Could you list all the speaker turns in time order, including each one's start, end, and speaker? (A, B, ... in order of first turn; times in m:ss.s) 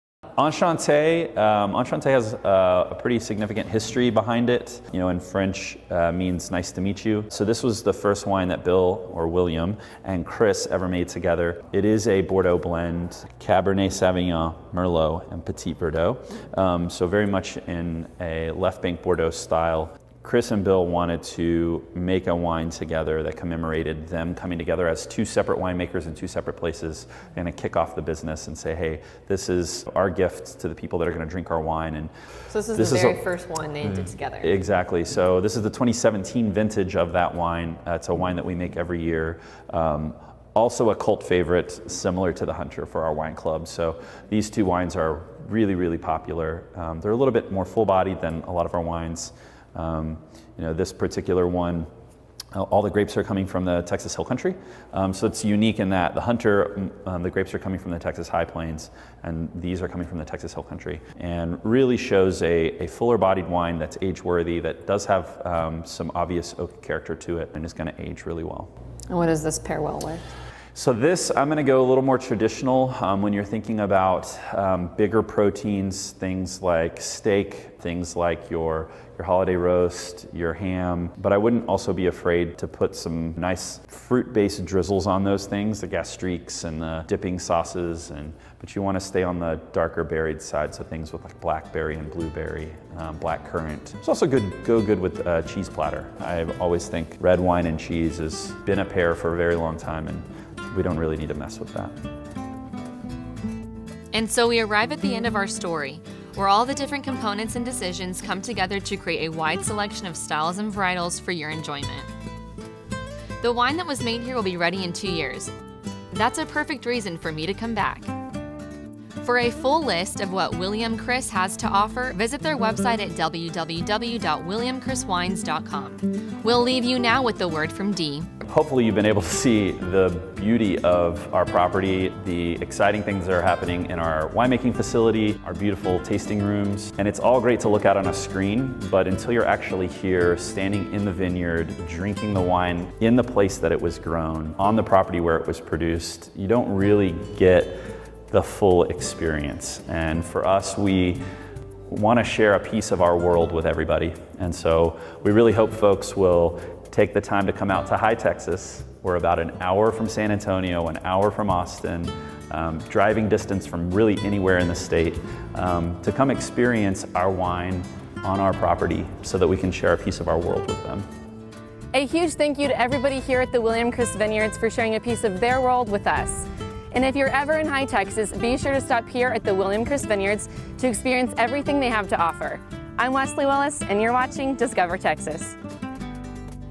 0:00.4-0:32.1 A
0:32.5-0:34.5 B
0:32.7-0:33.2 A
0:34.4-0:51.9 A
0:52.5-1:08.7 A
1:09.1-1:10.2 B
1:10.7-1:42.0 A
1:44.1-1:52.1 C
1:53.4-1:55.5 C
1:56.1-1:58.1 C
1:59.2-2:08.3 C
2:08.4-2:31.2 A
2:31.9-2:51.0 A
2:51.9-3:05.6 B